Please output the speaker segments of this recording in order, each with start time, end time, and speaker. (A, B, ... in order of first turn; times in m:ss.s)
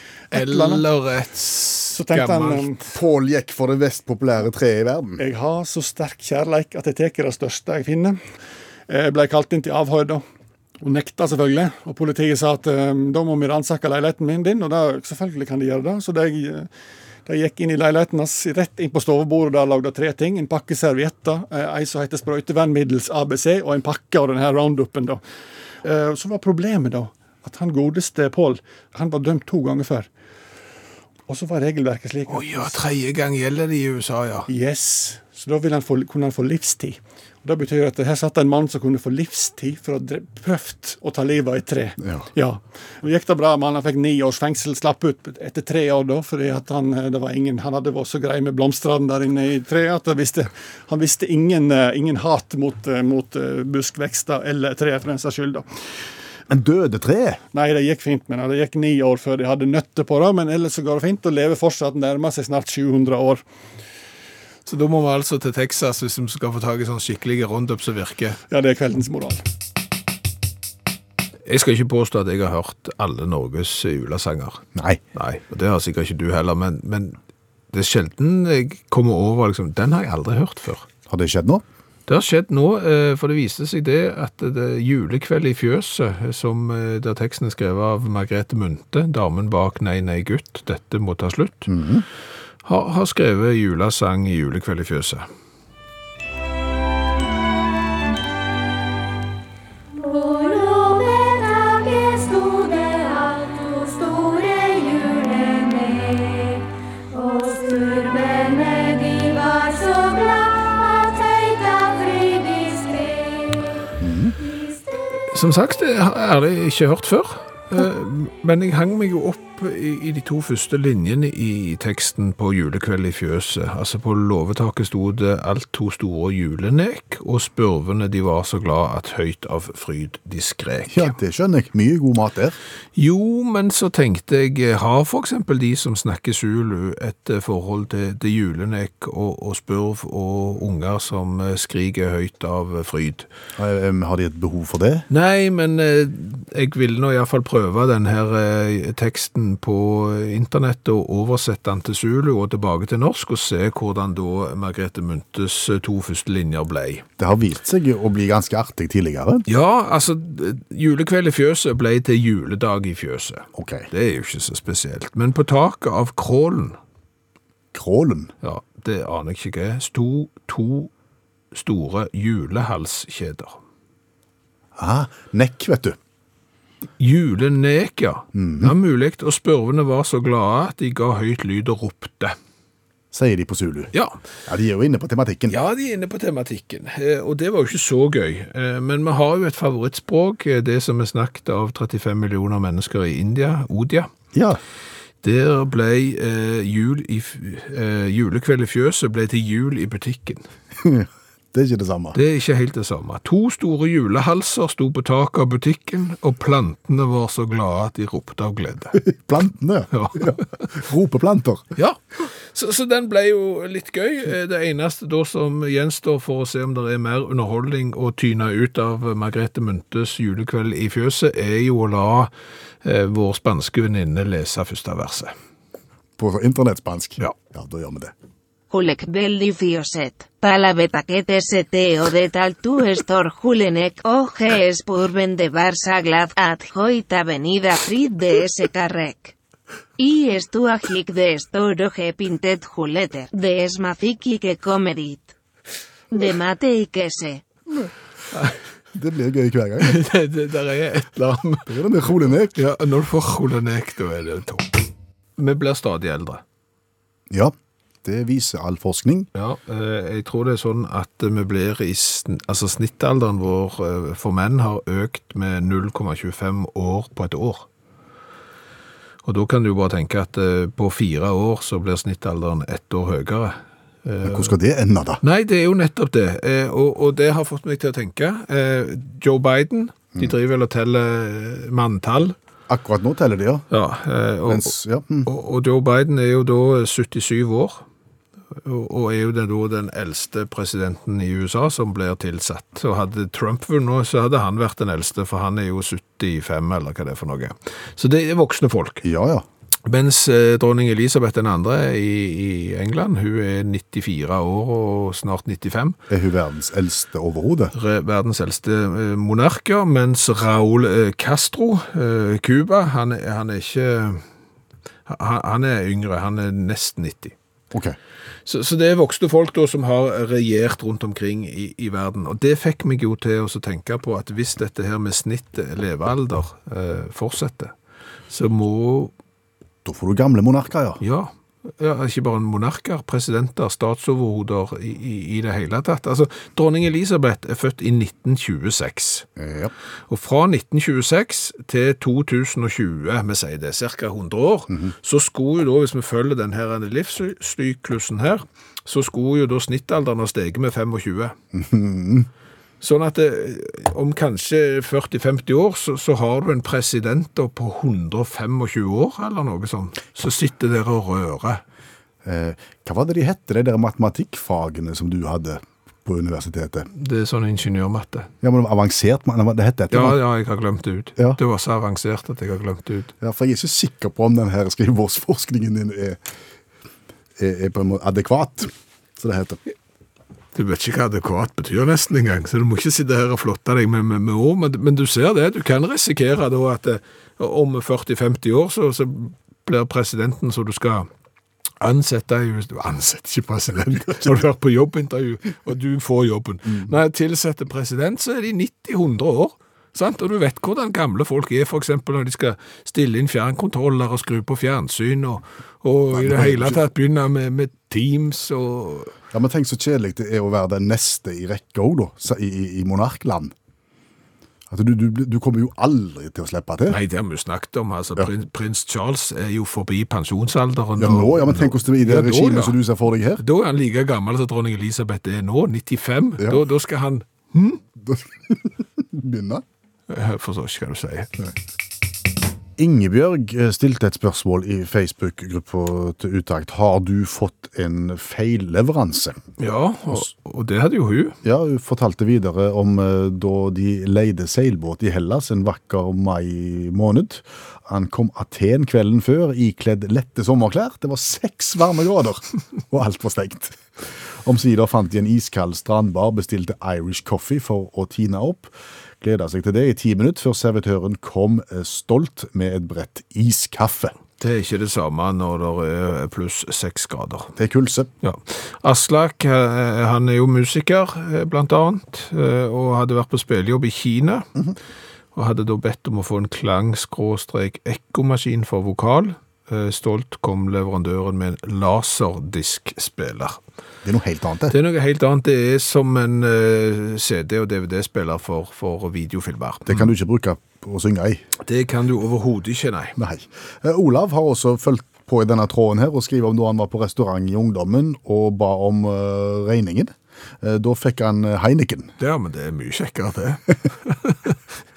0:00.3-0:00.8 A
0:00.3-0:02.8 B
0:01.9-0:02.8 A
0:02.9-0:05.2 C
0:05.2-0:08.2 A
0:08.9-0:10.2 A
0:10.8-0:16.7 A
0:17.2-0:25.2 A
0:25.8-0:30.1 A
0:31.3-0:32.7 A
0:32.3-0:34.5 B
0:34.5-0:55.6 A
0:56.5-0:57.4 C
0:57.5-1:03.4 A
1:04.6-1:08.4 B
1:08.5-1:09.4 A
1:11.4-1:14.6 B
1:14.7-1:15.0 C
1:15.1-1:17.2 B
1:17.7-1:20.9 B
1:21.1-1:21.6 C
1:22.1-1:31.7 B
1:31.7-1:32.0 C
1:32.6-1:35.2 B
1:39.9-1:53.6 D
1:54.0-1:54.4 C
1:55.3-2:11.1 B
2:10.9-2:12.6 C
2:13.0-2:23.3 B
2:23.6-2:25.1 C
2:25.1-2:37.0 B
2:37.2-2:39.4 C
2:39.5-2:46.8 B
2:43.6-2:43.9 C
2:47.7-2:48.3 C
2:48.4-2:50.9 B
2:51.5-2:53.6 B
2:54.8-2:56.0 C
2:57.0-3:02.4 B
2:58.4-2:58.7 C
3:03.1-3:03.9 C
3:03.9-3:04.2 B
3:04.5-3:05.6 C
3:05.5-3:14.1 B
3:14.3-3:14.6 C
3:15.2-3:20.4 B
3:20.8-3:22.2 C
3:22.1-3:29.0 B
3:28.9-3:31.6 C
3:29.9-3:30.4 B
3:31.8-3:42.3 B
3:42.8-3:45.3 B
3:46.2-3:48.1 C
3:48.7-3:59.3 E
4:00.0-4:05.3 E
4:06.1-4:07.4 E
4:08.3-4:08.6 B
4:08.9-4:10.0 C
4:09.8-4:11.7 B
4:11.7-4:12.5 C
4:12.5-4:14.7 B
4:15.4-4:16.4 B
4:17.3-4:19.3 C
4:19.3-4:27.7 B
4:29.2-4:34.5 B
4:34.2-4:35.2 C
4:35.2-4:42.4 B
4:42.7-4:43.6 C
4:43.7-4:44.7 B
4:44.5-4:45.3 C
4:45.2-4:47.8 B
4:48.6-4:59.0 B
4:59.0-4:59.4 C
4:59.9-5:06.0 B
5:06.1-5:07.7 C
5:07.7-5:14.2 B
5:15.1-5:17.3 B
5:18.4-5:27.7 B
5:28.3-5:29.1 B
5:29.8-5:31.0 C
5:31.0-5:39.2 B
5:39.4-5:39.7 C
5:40.1-5:51.3 B
5:51.5-5:52.3 C
5:52.8-6:01.6 B
6:02.2-6:06.9 C
6:06.9-6:08.3 B
6:08.4-6:10.2 C
6:09.9-6:13.1 B
6:13.2-6:16.2 C
6:17.4-6:19.6 C
6:20.5-6:31.1 B
6:31.8-6:49.1 B
6:46.1-6:46.8 C
6:49.3-6:53.5 C
6:54.7-6:57.0 C
6:56.9-7:02.8 B
7:01.0-7:03.4 C
7:03.4-7:07.8 B
7:08.0-7:09.6 C
7:10.1-7:11.5 B
7:12.8-7:19.4 C
7:19.6-7:21.4 B
7:21.4-7:44.1 C
7:44.4-7:47.5 B
7:47.6-7:48.1 C
7:48.2-7:54.5 B
7:55.3-8:03.6 B
8:04.0-8:04.8 C
8:04.7-8:10.1 B
8:09.9-8:11.4 C
8:11.6-8:13.2 B
8:13.2-8:22.1 C
8:22.2-8:24.6 B